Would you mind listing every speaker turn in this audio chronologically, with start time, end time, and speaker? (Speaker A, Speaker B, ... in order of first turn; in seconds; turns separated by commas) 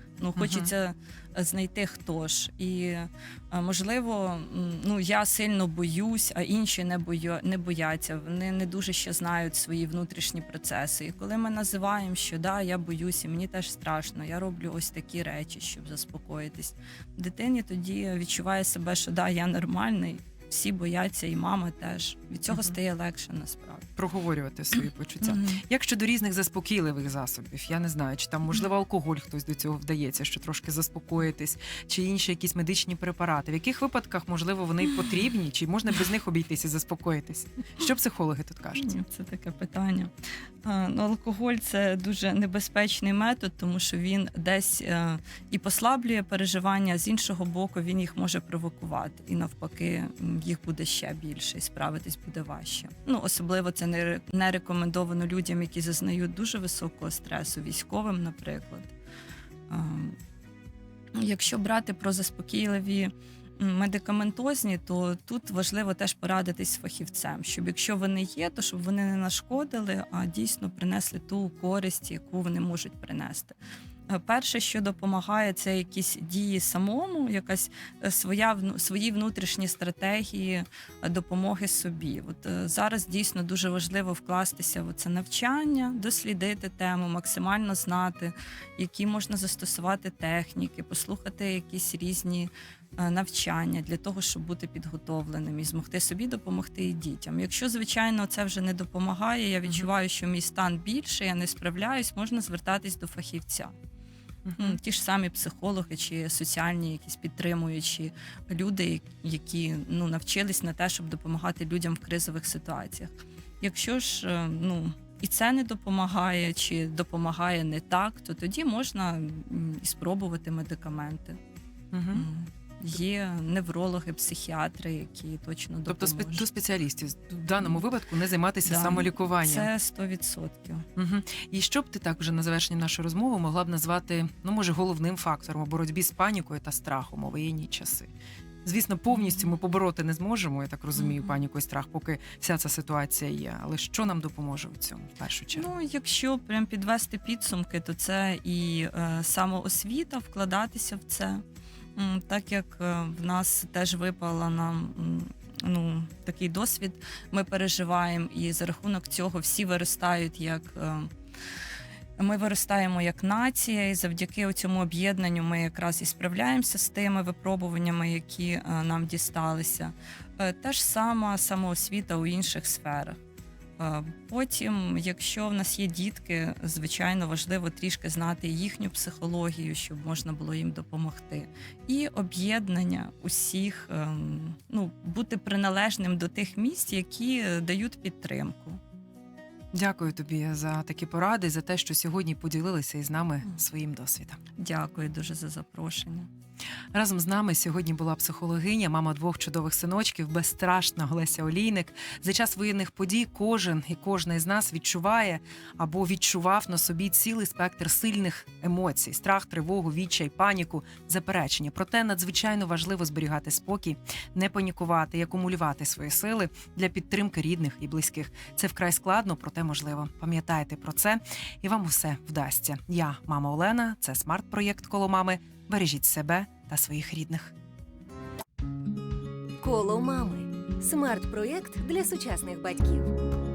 Speaker A: 0.2-23.9, Speaker B: 0.4-0.7, Speaker B: 24.0-39.0, Speaker A: 25.2-25.6, Speaker A: 38.8-40.1, Speaker A: 40.6-58.9, Speaker A: 59.7-60.2, Speaker A: 61.1-73.5, Speaker A: 74.1-103.7, Speaker B: 99.7-99.9, Speaker B: 104.5-104.8, Speaker A: 104.6-121.4, Speaker B: 121.9-122.3, Speaker A: 122.1-126.5, Speaker B: 125.9-129.7, Speaker A: 128.7-130.9, Speaker B: 131.0-138.1, Speaker B: 138.7-145.7, Speaker A: 139.1-139.5, Speaker A: 141.0-141.3, Speaker A: 145.6-151.4, Speaker A: 152.0-161.1, Speaker A: 162.2-173.2, Speaker A: 173.8-188.8, Speaker B: 189.7-194.4, Speaker A: 194.6-196.3, Speaker B: 196.9-227.5, Speaker C: 229.6-233.2